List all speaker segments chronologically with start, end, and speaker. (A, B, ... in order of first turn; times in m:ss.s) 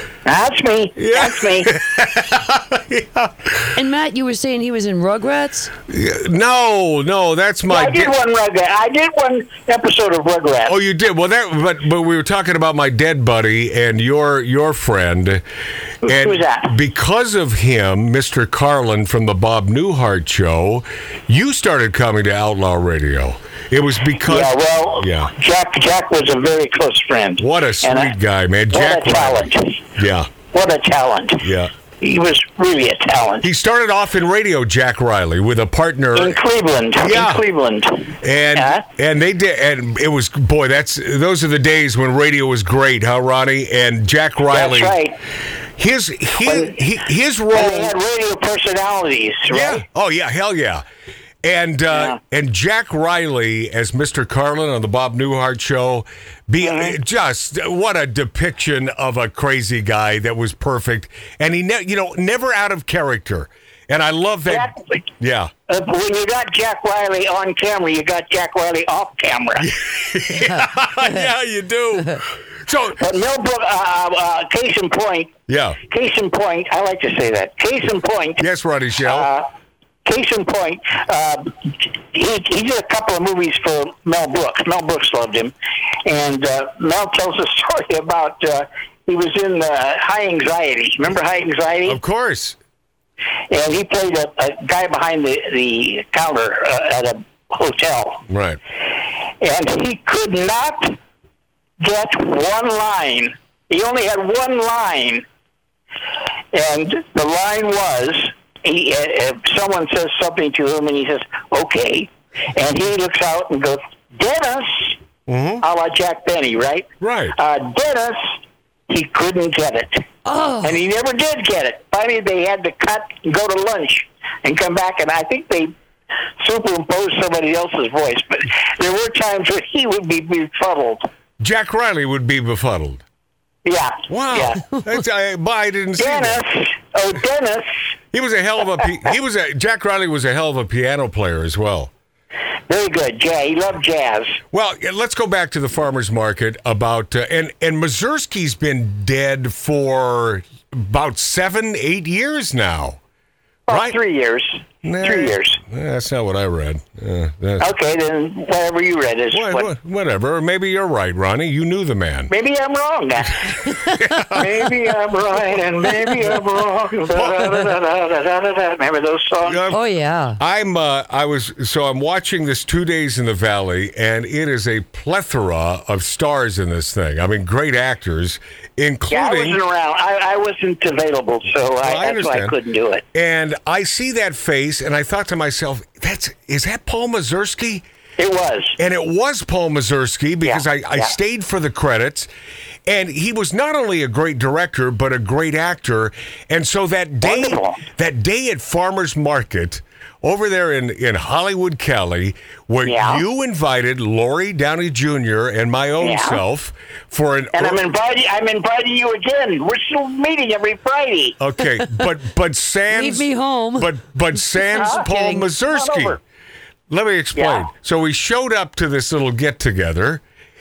0:00.2-0:01.7 A
0:01.0-0:03.7 B
0:03.7-0:05.7 C
0:05.9-0:08.1 B
0:07.7-0:10.8 A
0:10.7-0:15.4 B
0:16.0-0:25.3 B
0:16.0-0:16.7 A
0:24.3-0:28.1 A
0:27.4-0:30.3 B
0:28.7-0:29.8 A
0:30.5-0:31.5 A
0:31.4-0:31.7 B
0:32.0-0:33.5 A
0:33.4-0:36.4 B
0:36.1-0:38.8 A
0:37.0-0:37.4 B
0:38.2-0:45.0 B
0:44.5-0:45.2 A
0:45.8-0:48.0 B
0:46.4-0:46.8 A
0:47.5-0:49.8 A
0:49.5-0:50.8 B
0:51.4-1:05.5 B
0:51.9-0:52.2 A
0:56.6-0:57.0 A
1:04.5-1:05.0 A
1:05.7-1:09.7 A
1:09.6-1:13.0 B
1:13.0-1:15.3 A
1:15.5-1:15.8 B
1:15.8-1:18.4 A
1:18.4-1:19.3 B
1:19.0-1:19.5 A
1:20.0-1:25.5 A
1:26.0-1:32.0 A
1:31.9-1:32.6 B
1:33.5-1:38.2 A
1:38.3-1:38.6 B
1:39.4-1:41.0 A
1:41.8-1:45.2 A
1:46.5-1:55.0 A
1:55.3-1:55.6 B
1:55.6-1:58.3 A
1:57.0-1:57.4 B
1:58.9-2:00.0 A
2:00.2-2:00.7 C
2:00.6-2:05.7 A
2:06.4-2:11.1 A
2:11.4-2:13.0 B
2:13.6-2:14.6 A
2:14.1-2:16.4 B
2:16.0-2:17.8 A
2:18.1-2:21.9 B
2:22.7-2:24.4 A
2:24.5-2:33.0 B
2:33.7-2:35.6 A
2:33.7-2:34.0 B
2:34.8-2:37.7 B
2:37.6-2:39.7 A
2:39.3-2:42.3 B
2:42.3-2:43.6 A
2:43.7-2:44.7 B
2:44.3-2:49.6 A
2:47.2-2:47.5 B
2:49.4-2:49.8 B
2:49.7-2:50.4 C
2:50.4-2:59.6 B
2:59.1-3:03.0 A
3:01.8-3:02.6 B
3:03.1-3:07.8 B
3:08.2-3:08.8 A
3:08.8-3:12.3 B
3:10.4-3:11.1 A
3:12.8-3:27.8 B
3:17.2-3:17.8 A
3:22.8-3:23.2 A
3:26.0-3:26.4 A
3:27.5-3:31.4 A
3:31.4-3:36.2 B
3:32.9-3:33.9 C
3:34.6-3:35.4 C
3:34.8-3:35.0 A
3:35.6-3:36.2 A
3:36.9-3:40.2 B
3:37.4-3:37.7 A